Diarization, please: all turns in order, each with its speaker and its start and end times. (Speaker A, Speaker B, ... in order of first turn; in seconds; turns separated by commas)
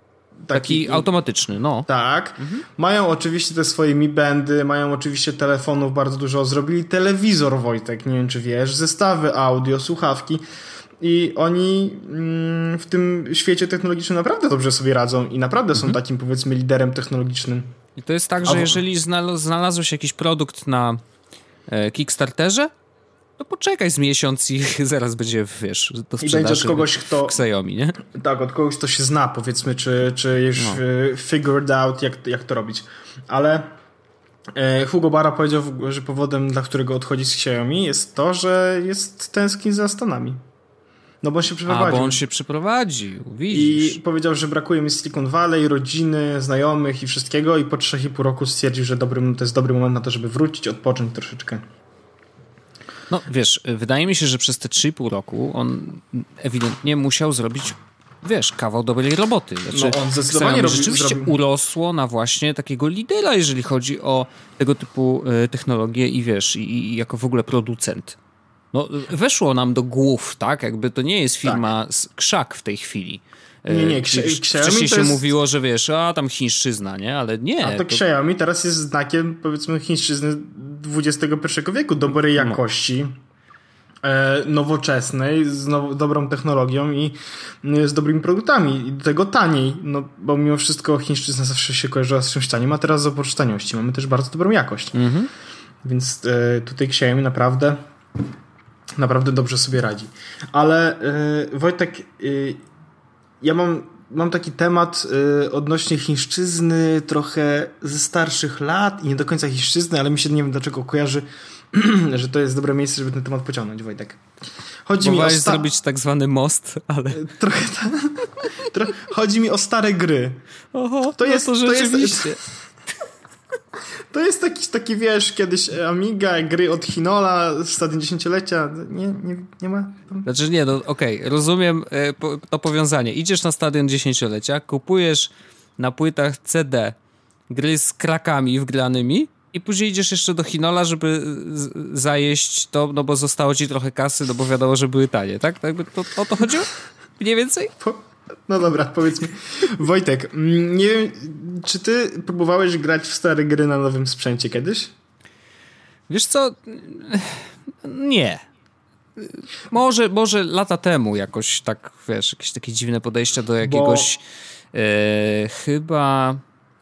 Speaker A: 0.5-1.1, Speaker B: 0.5-1.9, Speaker A: 1.9-10.4, Speaker B: 2.4-2.6, Speaker A: 11.0-17.7, Speaker B: 18.0-21.0, Speaker A: 18.4-18.8, Speaker B: 21.7-22.7, Speaker B: 23.4-28.0, Speaker A: 26.2-27.4, Speaker A: 28.0-33.7, Speaker A: 34.5-40.4, Speaker A: 41.2-42.2, Speaker B: 41.7-44.0, Speaker A: 43.5-51.6, Speaker B: 53.1-68.2, Speaker A: 59.7-61.4, Speaker B: 68.7-78.0, Speaker A: 73.7-75.3, Speaker A: 77.6-83.2, Speaker A: 84.0-95.0, Speaker B: 94.9-95.3, Speaker A: 95.8-97.8, Speaker A: 99.0-102.6, Speaker A: 103.4-114.2, Speaker A: 114.9-115.7, Speaker B: 115.0-117.3, Speaker A: 117.2-120.4, Speaker B: 120.7-122.4, Speaker A: 121.2-122.4, Speaker A: 124.1-130.3, Speaker B: 130.2-137.0, Speaker B: 137.5-147.7, Speaker A: 147.8-154.9, Speaker B: 156.1-158.4, Speaker B: 159.2-164.2, Speaker A: 163.6-164.1, Speaker B: 164.7-166.4